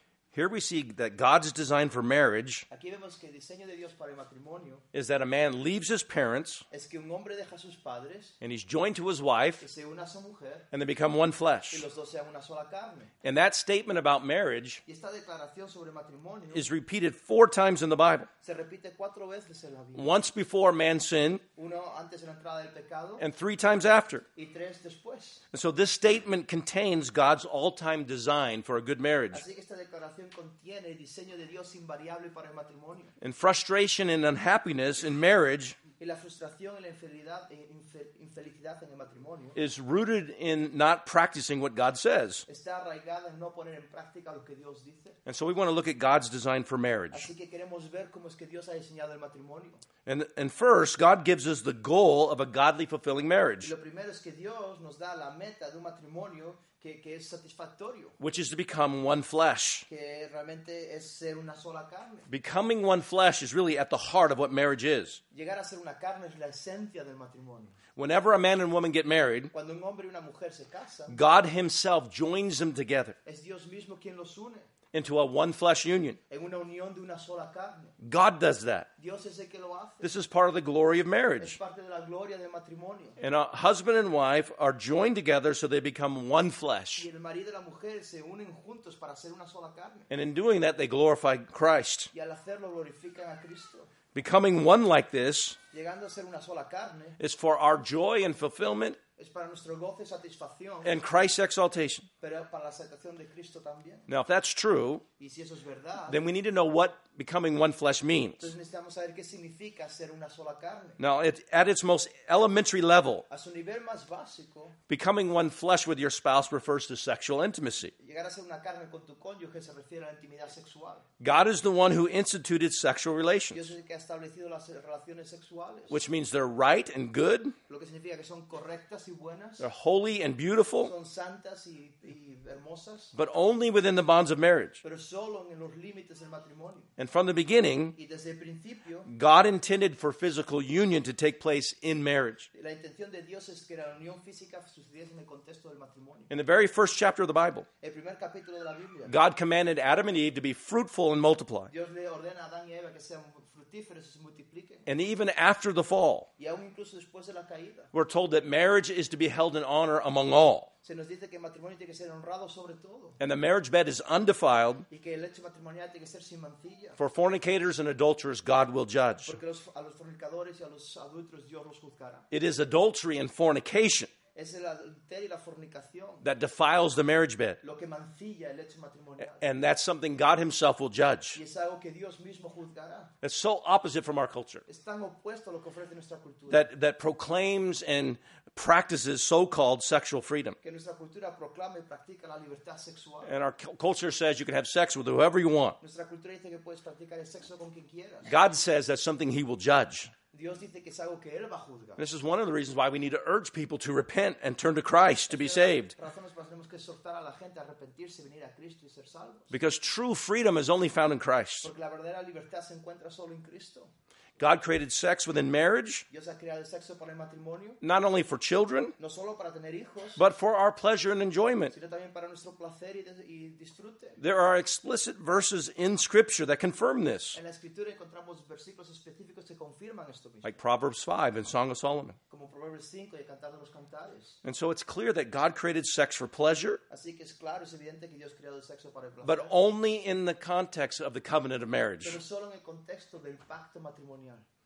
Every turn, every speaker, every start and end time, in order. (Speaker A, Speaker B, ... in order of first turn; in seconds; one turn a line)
Speaker A: 0.3-2.7
Speaker B: 2.7-4.8
Speaker A: 4.9-6.6
Speaker B: 6.7-8.4
Speaker A: 8.4-9.6
Speaker B: 9.6-10.7
Speaker A: 10.7-11.9
Speaker B: 11.7-13.1
Speaker A: 13.2-14.8
Speaker B: 14.8-16.7
Speaker A: 16.5-18.3
Speaker B: 18.4-20.1
Speaker A: 19.9-21.4
Speaker B: 21.6-23.2
Speaker A: 23.2-24.2
Speaker B: 24.3-25.4
Speaker A: 25.5-29.4
Speaker B: 29.3-33.1
Speaker A: 33.2-35.8
Speaker B: 36.0-39.6
Speaker A: 39.5-42.4
Speaker B: 42.5-45.2
Speaker A: 45.2-47.3
Speaker B: 47.1-49.8
Speaker A: 50.0-53.7
Speaker B: 53.6-58.2
Speaker A: 58.2-59.9
Speaker B: 59.9-62.3
Speaker A: 62.3-65.2
Speaker B: 65.3-67.7
Speaker A: 68.0-69.5
Speaker B: 69.5-71.2
Speaker A: 71.1-73.2
Speaker B: 73.2-74.7
Speaker A: 74.9-76.2
Speaker B: 76.3-77.9
Speaker A: 78.0-78.9
Speaker B: 79.0-80.1
Speaker A: 80.0-81.6
Speaker B: 81.4-83.2
Speaker A: 83.2-87.1
Speaker B: 87.0-90.1
Speaker A: 90.1-92.1
Speaker B: 92.1-93.9
Speaker A: 94.1-95.6
Speaker B: 95.7-97.2
Speaker A: 97.2-99.0
Speaker B: 99.2-101.0
Speaker A: 100.8-102.1
Speaker B: 102.2-104.1
Speaker A: 104.1-105.0
Speaker B: 105.2-106.2
Speaker A: 106.1-108.5
Speaker B: 108.4-111.0
Speaker A: 111.0-113.2
Speaker B: 113.3-114.8
Speaker A: 114.9-117.9
Speaker B: 118.0-121.0
Speaker A: 121.2-123.7
Speaker B: 123.5-126.0
Speaker A: 125.9-127.5
Speaker B: 127.7-129.7
Speaker A: 129.6-130.9
Speaker B: 130.8-133.1
Speaker A: 133.1-134.8
Speaker B: 134.8-136.9
Speaker A: 137.0-137.9
Speaker B: 137.9-139.1
Speaker A: 139.1-142.5
Speaker B: 142.5-146.3
Speaker A: 146.3-147.7
Speaker B: 147.8-149.1
Speaker A: 149.1-151.7
Speaker B: 151.7-154.9
Speaker A: 154.9-156.3
Speaker B: 156.4-157.9
Speaker A: 157.9-160.7
Speaker B: 160.8-163.2
Speaker A: 163.2-164.9
Speaker B: 164.9-167.0
Speaker A: 167.0-169.4
Speaker B: 169.3-172.3
Speaker A: 172.3-174.1
Speaker B: 174.3-176.3
Speaker A: 176.2-177.6
Speaker B: 177.6-179.4
Speaker A: 179.3-181.4
Speaker B: 181.3-183.1
Speaker A: 183.2-184.6
Speaker B: 184.7-186.7
Speaker A: 186.5-190.6
Speaker B: 190.6-193.3
Speaker A: 193.2-195.8
Speaker B: 195.8-198.3
Speaker A: 198.2-200.1
Speaker B: 200.3-202.0
Speaker A: 202.0-205.9
Speaker B: 205.3-209.5
Speaker A: 209.5-211.7
Speaker B: 211.6-213.9
Speaker A: 214.4-216.0
Speaker B: 216.1-217.8
Speaker A: 217.8-218.9
Speaker B: 219.0-220.2
Speaker A: 220.2-221.7
Speaker B: 221.7-224.2
Speaker A: 224.2-227.4
Speaker B: 227.3-230.6
Speaker A: 230.4-232.2
Speaker B: 232.3-234.4
Speaker A: 234.4-236.8
Speaker B: 236.9-239.5
Speaker A: 239.2-242.2
Speaker B: 242.0-244.4